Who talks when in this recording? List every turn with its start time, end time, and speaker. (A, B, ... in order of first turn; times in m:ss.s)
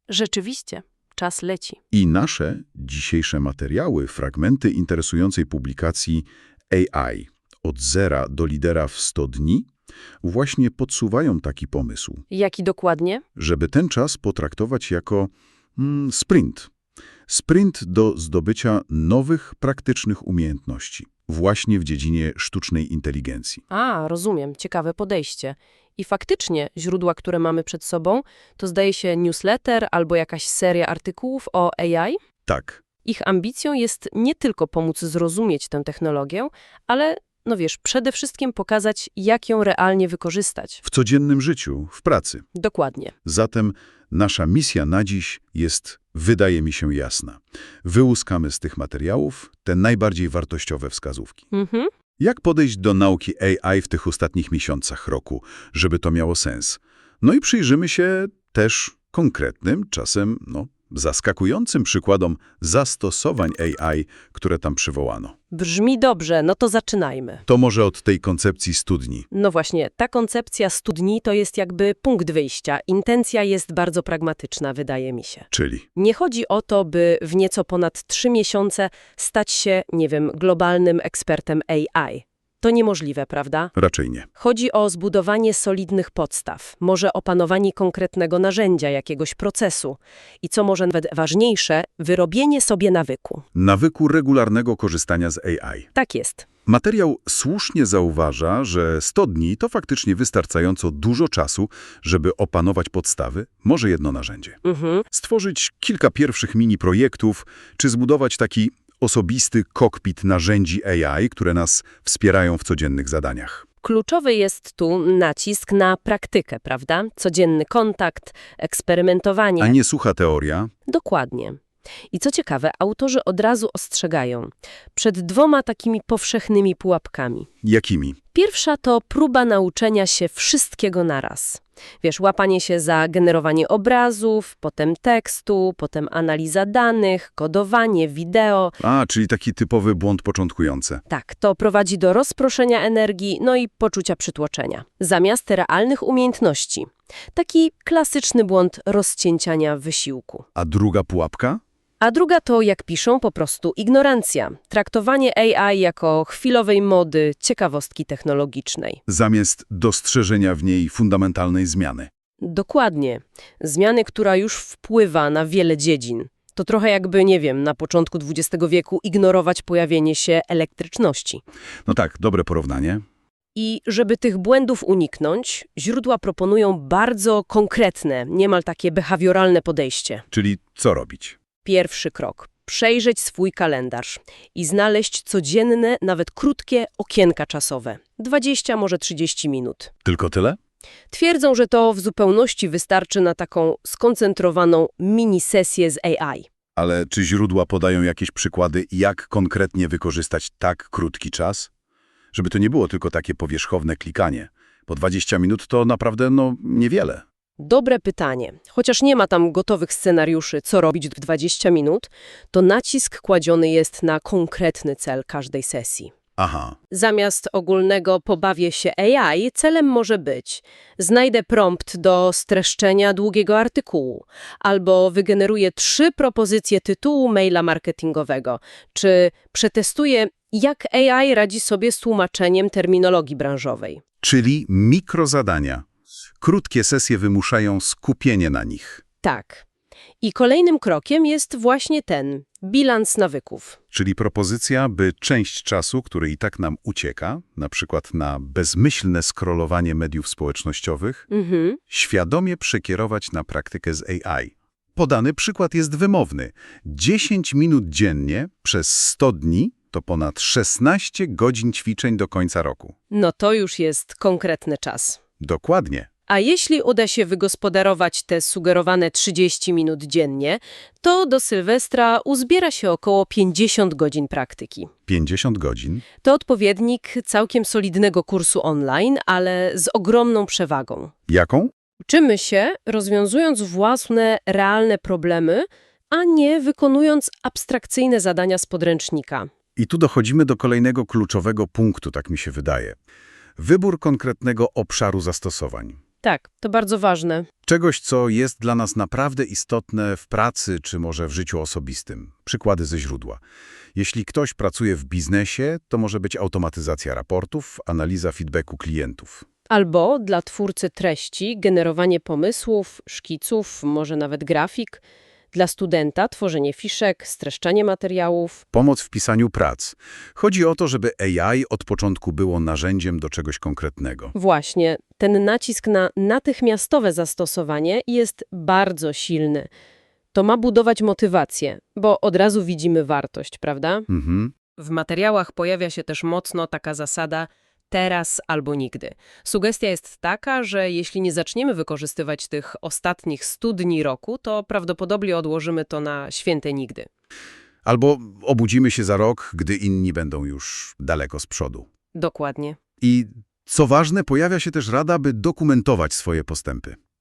0:00.1-0:01.8 A
0:01.9-0:09.7 B
0:10.2-0:12.2 B
0:12.3-0:13.2 A
0:13.4-0:16.7 B
0:17.3-0:23.6 B
0:23.7-0:32.2 A
0:32.5-0:32.8 B
0:33.0-0:40.8 A
0:40.8-0:42.4 B
0:42.6-0:43.1 A
0:43.2-0:51.4 B
0:51.5-0:51.9 A
0:52.2-1:05.4 B
1:05.5-1:07.4 A
1:07.4-1:09.3 B
1:09.3-1:23.7 A
1:15.5-1:15.9 B
1:23.8-1:24.3 B
1:24.4-1:33.4 A
1:33.5-1:35.9 B
1:36.0-1:36.5 A
1:36.7-1:53.7 B
1:44.6-1:45.0 A
1:53.8-1:59.8 A
1:59.6-2:00.7 B
2:00.9-2:01.6 A
2:02.1-2:07.5 A
2:07.6-2:08.2 B
2:08.3-2:18.8 A
2:18.8-2:21.0 B
2:21.1-2:30.4 A
2:30.6-2:31.6 B
2:32.0-2:39.0 A
2:39.1-2:42.1 B
2:42.4-2:51.4 A
2:51.9-2:53.0 B
2:53.6-3:00.2 A
3:00.3-3:01.4 B
3:01.6-3:09.9 A
3:10.0-3:10.6 B
3:11.1-3:16.5 A
3:16.8-3:21.7 B
3:22.3-3:27.2 B
3:27.6-3:36.1 A
3:36.4-3:36.8 B
3:36.9-3:54.0 A
3:54.2-3:55.8 B
3:56.4-3:59.0 B
3:59.2-3:59.6 A
4:00.2-4:03.8 A
4:03.9-4:11.3 B
4:11.3-4:11.8 A
4:11.9-4:23.0 B
4:23.1-4:25.2 A
4:25.4-4:26.1 B
4:26.3-4:34.9 A
4:35.1-4:36.1 B
4:36.2-4:41.1 A
4:41.3-4:41.7 B
4:42.1-4:49.5 A
4:49.8-4:53.0 B
4:53.6-4:56.0 B
4:56.2-4:57.5 A
4:57.6-5:03.4 B
5:04.0-5:09.4 B
5:09.7-5:18.6 A
5:18.7-5:24.3 B
5:24.3-5:29.7 A
5:30.3-5:34.1 A
5:34.1-5:34.5 B
5:34.8-5:47.1 A
5:47.8-5:51.9 B
5:52.2-5:52.8 A
5:53.0-5:57.0 B